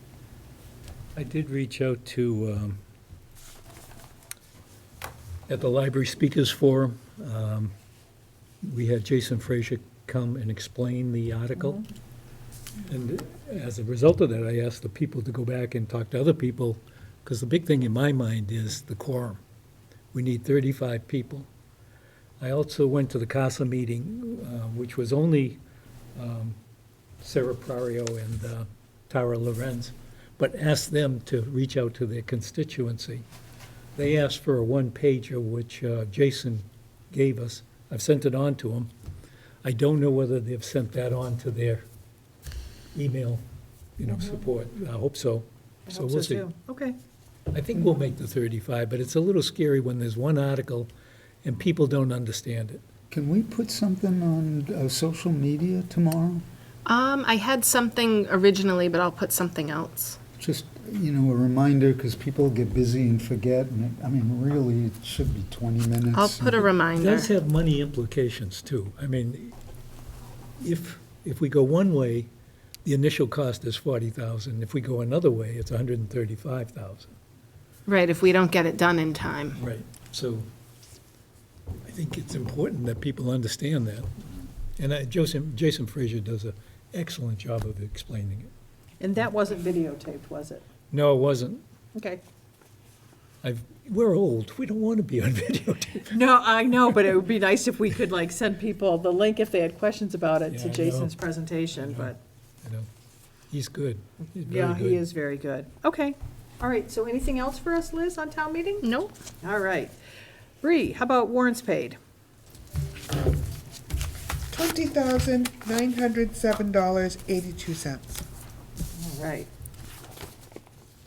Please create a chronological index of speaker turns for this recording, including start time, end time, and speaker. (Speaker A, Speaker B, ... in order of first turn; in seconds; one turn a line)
Speaker A: 1.2-2.8
Speaker A: 5.5-7.7
Speaker A: 8.6-11.8
Speaker A: 12.8-19.4
Speaker A: 20.1-21.5
Speaker A: 22.4-25.6
Speaker A: 26.2-26.6
Speaker A: 27.2-33.3
Speaker A: 34.0-38.9
Speaker A: 39.6-41.9
Speaker A: 42.9-43.4
Speaker A: 44.0-46.5
Speaker B: 45.9-47.0
Speaker A: 47.5-50.9
Speaker A: 51.4-52.8
Speaker C: 53.1-56.4
Speaker D: 56.9-60.2
Speaker C: 60.4-66.7
Speaker D: 66.1-67.3
Speaker A: 67.0-69.5
Speaker A: 70.6-72.3
Speaker A: 72.8-77.1
Speaker D: 77.9-79.6
Speaker A: 79.6-80.5
Speaker A: 81.8-84.2
Speaker A: 84.8-88.5
Speaker B: 89.0-90.7
Speaker A: 90.9-91.6
Speaker B: 92.0-92.2
Speaker A: 93.4-96.2
Speaker B: 96.1-102.2
Speaker A: 100.5-101.2
Speaker A: 101.8-102.9
Speaker A: 103.5-105.1
Speaker B: 104.5-108.9
Speaker D: 108.8-109.2
Speaker B: 109.4-110.0
Speaker B: 110.6-112.0
Speaker E: 114.5-118.1
Speaker B: 119.0-119.5